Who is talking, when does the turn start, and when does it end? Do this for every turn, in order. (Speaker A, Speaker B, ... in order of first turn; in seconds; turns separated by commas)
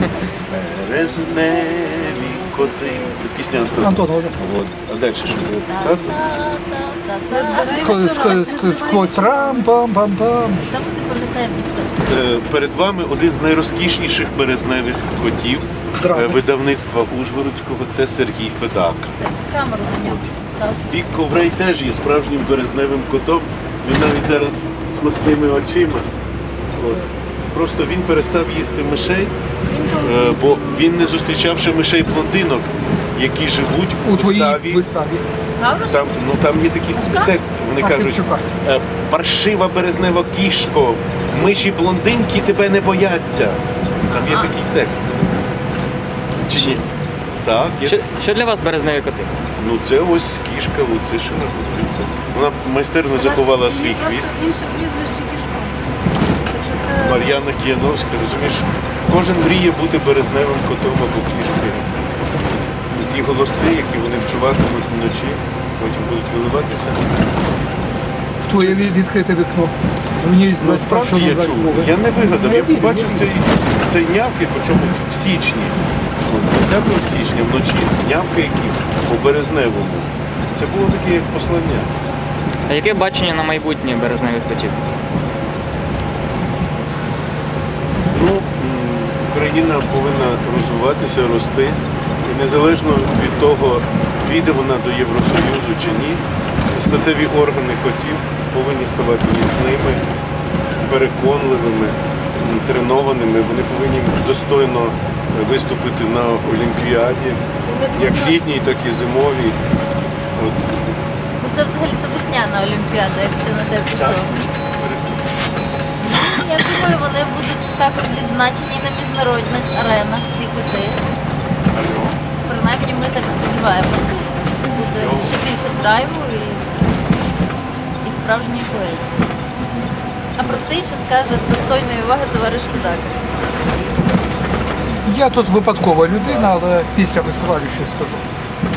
Speaker A: 0.3-6.1, Speaker B: 3.8-4.3, Speaker C: 5.7-8.1, Speaker D: 7.3-9.7, Speaker B: 7.7-10.7, Speaker C: 10.7-12.0, Speaker A: 12.0-19.1, Speaker B: 16.0-16.4, Speaker C: 19.1-20.8, Speaker A: 20.9-26.1, Speaker A: 26.8-29.3, Speaker D: 29.7-30.9, Speaker A: 30.0-34.8, Speaker B: 34.0-35.2, Speaker C: 35.6-36.2, Speaker A: 35.9-45.2, Speaker C: 36.9-37.3, Speaker B: 37.8-38.5, Speaker A: 46.4-46.8, Speaker A: 47.4-48.0, Speaker E: 47.8-49.3, Speaker A: 49.6-54.4, Speaker D: 53.1-55.8, Speaker D: 56.5-57.3, Speaker A: 57.0-61.9, Speaker A: 62.9-67.0, Speaker B: 68.4-73.3, Speaker A: 68.5-68.9, Speaker A: 70.5-81.9, Speaker E: 82.7-84.8, Speaker A: 88.1-100.0, Speaker A: 100.8-107.4, Speaker D: 107.6-108.4, Speaker A: 107.9-109.6, Speaker A: 110.3-111.0, Speaker C: 111.4-114.5, Speaker A: 113.9-115.2, Speaker C: 116.0-121.0, Speaker A: 121.7-122.2, Speaker C: 122.4-126.8, Speaker A: 124.9-125.4, Speaker C: 128.0-129.1, Speaker C: 130.4-133.2, Speaker B: 135.0-138.3